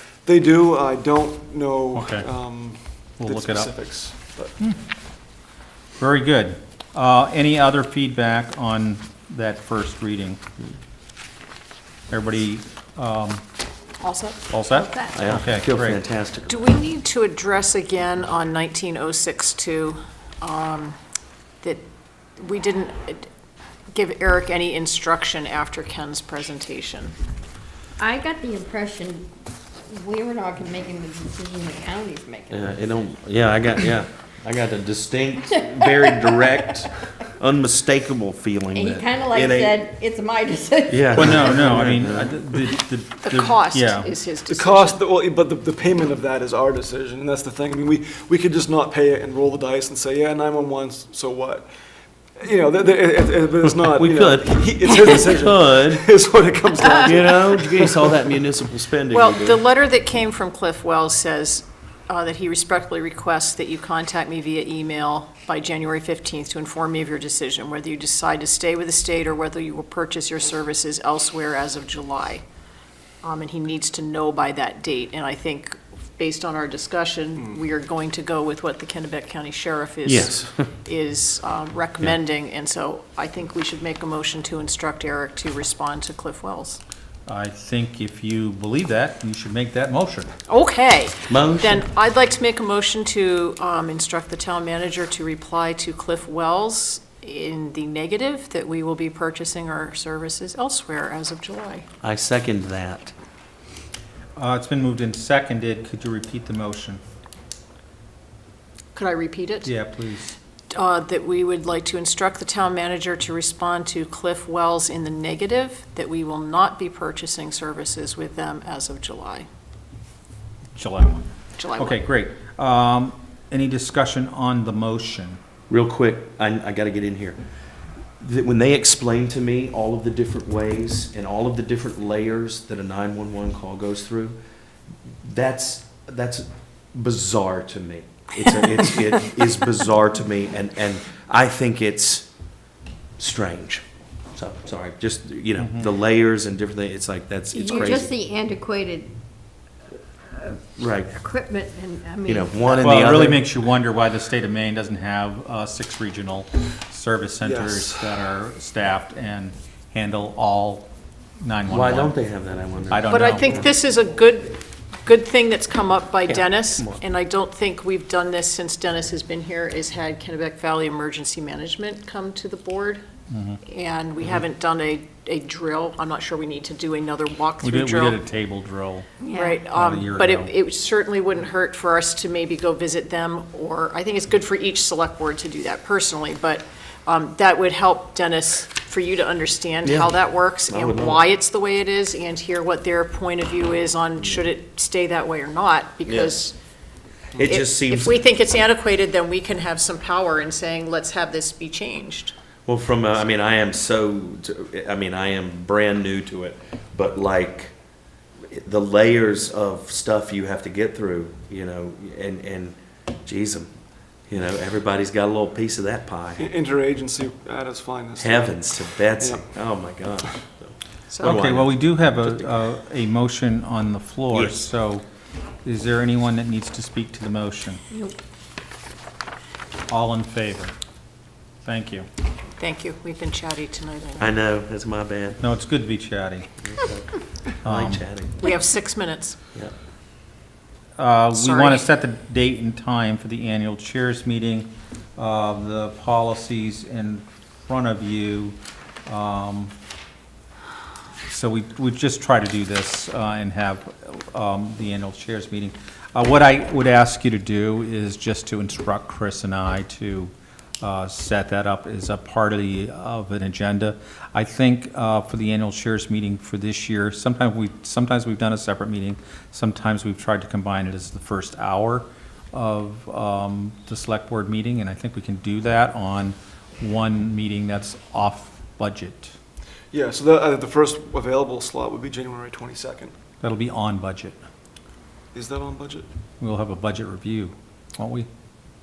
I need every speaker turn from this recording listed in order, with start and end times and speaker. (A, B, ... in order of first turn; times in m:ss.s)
0:00.2-0:04.6 A
0:02.0-0:02.3 B
0:03.2-0:03.7 B
0:06.0-0:10.4 B
0:12.1-0:13.4 B
0:14.0-0:15.1 C
0:14.5-0:16.0 B
0:15.1-0:16.7 D
0:16.5-0:21.0 C
0:22.4-0:23.3 C
0:23.9-0:27.2 C
0:28.0-0:29.3 E
0:29.9-0:32.8 E
0:32.5-0:39.9 D
0:35.5-0:36.5 E
0:38.7-0:41.8 E
0:40.9-0:42.4 D
0:41.1-0:44.1 B
0:43.2-0:45.0 C
0:44.5-0:51.7 A
0:52.4-0:58.0 A
0:53.9-0:56.1 D
0:57.0-0:59.6 D
0:59.1-1:12.4 C
1:13.2-1:26.8 C
1:20.0-1:20.5 D
1:27.3-1:30.3 B
1:30.5-1:41.9 C
1:31.3-1:31.8 D
1:42.0-1:43.1 D
1:44.4-1:47.0 B
1:49.0-1:49.8 C
1:49.6-1:50.4 B
1:50.7-1:59.5 C
2:00.8-2:05.4 B
2:01.6-2:02.0 C
2:05.7-2:07.4 D
2:08.2-2:14.4 D
2:15.2-2:22.3 D
2:18.6-2:19.0 C
2:23.2-2:28.1 D
2:27.5-2:29.2 E
2:30.3-2:33.0 E
2:30.8-2:31.1 D
2:32.2-2:33.4 D
2:32.8-2:40.9 B
2:37.4-2:38.1 A
2:41.4-2:42.1 B
2:41.7-2:43.8 D
2:42.9-2:43.6 B
2:43.1-2:53.0 C
2:53.3-2:53.6 B
2:53.7-2:58.2 C
2:57.6-2:59.1 B
2:59.2-2:59.6 E
2:59.3-3:16.6 C
2:59.7-3:00.5 B
3:09.8-3:10.2 D
3:10.7-3:11.2 D
3:16.1-3:16.4 D
3:17.4-3:18.2 D
3:17.4-3:22.3 C
3:22.7-3:27.8 D
3:28.5-3:33.7 D
3:34.3-3:36.5 D
3:36.4-3:39.5 A
3:38.2-3:42.5 D
3:41.1-3:41.4 C
3:41.2-3:45.0 B
3:44.3-3:44.6 D
3:45.6-3:47.8 B
3:47.9-3:48.2 E
3:49.9-3:50.7 B
3:51.6-3:52.0 B
3:52.6-3:54.4 C
3:54.2-3:55.4 D
3:55.4-3:56.6 B
3:56.6-3:58.4 D
3:57.6-3:58.1 B
3:58.4-3:59.4 C
4:01.0-4:09.7 B
4:01.3-4:01.9 C
4:11.3-4:39.4 B
4:39.9-4:43.1 A
4:43.4-4:44.4 B
4:45.3-4:46.1 A
4:46.4-4:48.3 B